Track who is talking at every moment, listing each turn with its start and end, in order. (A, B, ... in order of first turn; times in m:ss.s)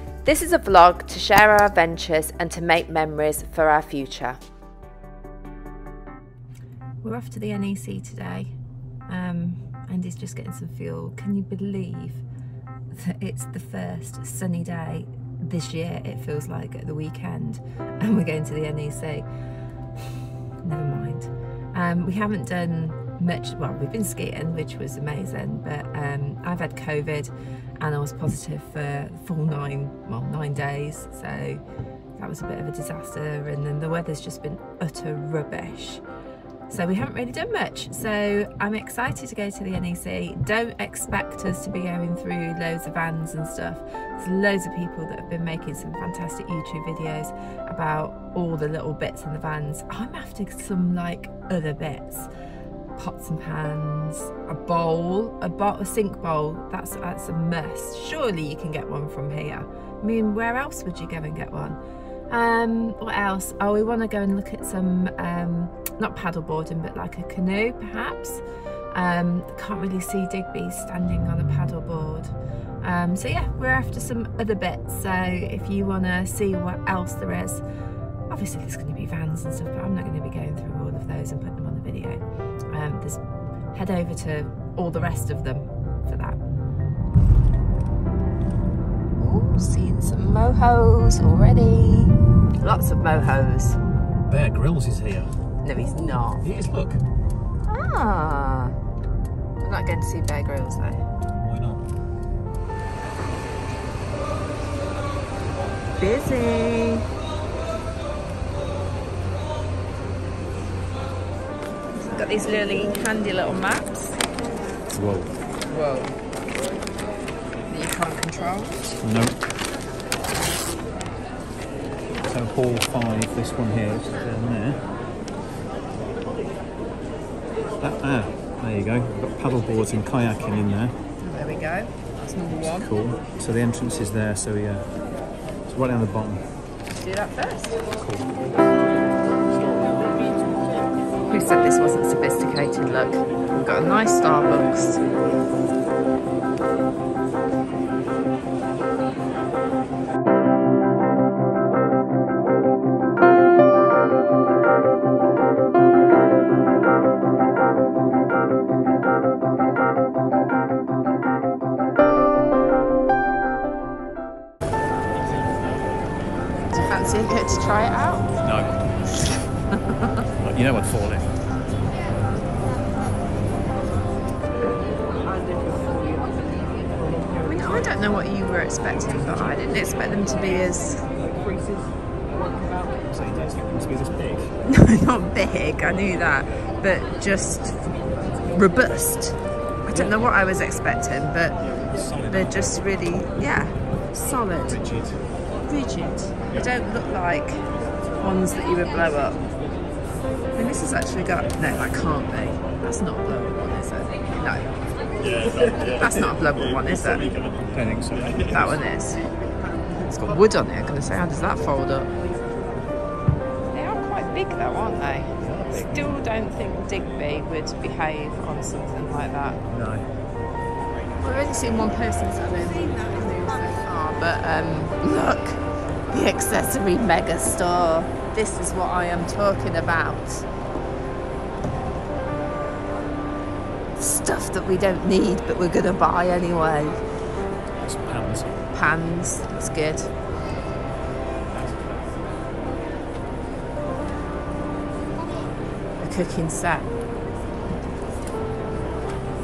0:00.2-0:04.4 A
0:07.0-0:08.5 A
0:09.1-0:12.2 A
0:12.9-0:19.3 A
0:20.6-0:31.6 A
0:32.2-0:36.0 A
0:36.7-0:52.3 A
0:53.0-1:01.8 A
1:02.3-1:17.6 A
1:18.3-1:23.2 A
1:23.7-1:26.4 A
1:29.2-1:33.8 A
1:34.3-1:35.4 B
1:35.6-1:36.4 A
1:36.4-1:37.0 B
1:37.7-1:38.8 A
1:39.6-1:41.0 A
1:41.4-1:41.8 B
1:46.0-1:47.1 A
1:52.0-1:54.2 A
1:54.9-1:55.4 B
1:55.7-1:56.1 A
1:57.7-1:59.0 A
1:59.0-1:59.4 B
2:02.2-2:04.8 B
2:07.8-2:10.9 B
2:11.2-2:12.9 A
2:12.6-2:14.9 B
2:15.7-2:16.5 B
2:16.9-2:17.8 A
2:17.9-2:18.3 B
2:21.3-2:25.0 A
2:46.7-2:48.3 A
2:48.4-2:48.9 B
2:49.7-2:50.1 A
2:50.4-2:51.4 B
2:57.4-3:01.0 A
3:02.8-3:04.5 B
3:04.6-3:07.9 A
3:08.5-3:11.6 A
3:09.9-3:10.2 B
3:11.9-3:12.8 B
3:12.3-3:14.8 A
3:14.6-3:15.2 B
3:15.6-3:17.6 A
3:18.2-3:19.4 A
3:20.5-3:24.7 A
3:25.7-3:27.3 A
3:27.6-3:28.4 B
3:28.4-3:29.2 A
3:30.0-3:32.1 A
3:33.7-3:39.6 A
3:35.4-3:36.2 B
3:39.7-3:40.1 B
3:41.2-3:50.5 A
3:54.0-3:57.0 A
3:57.8-3:58.6 B
3:58.7-4:00.1 A
4:01.5-4:01.9 B
4:06.0-4:07.0 A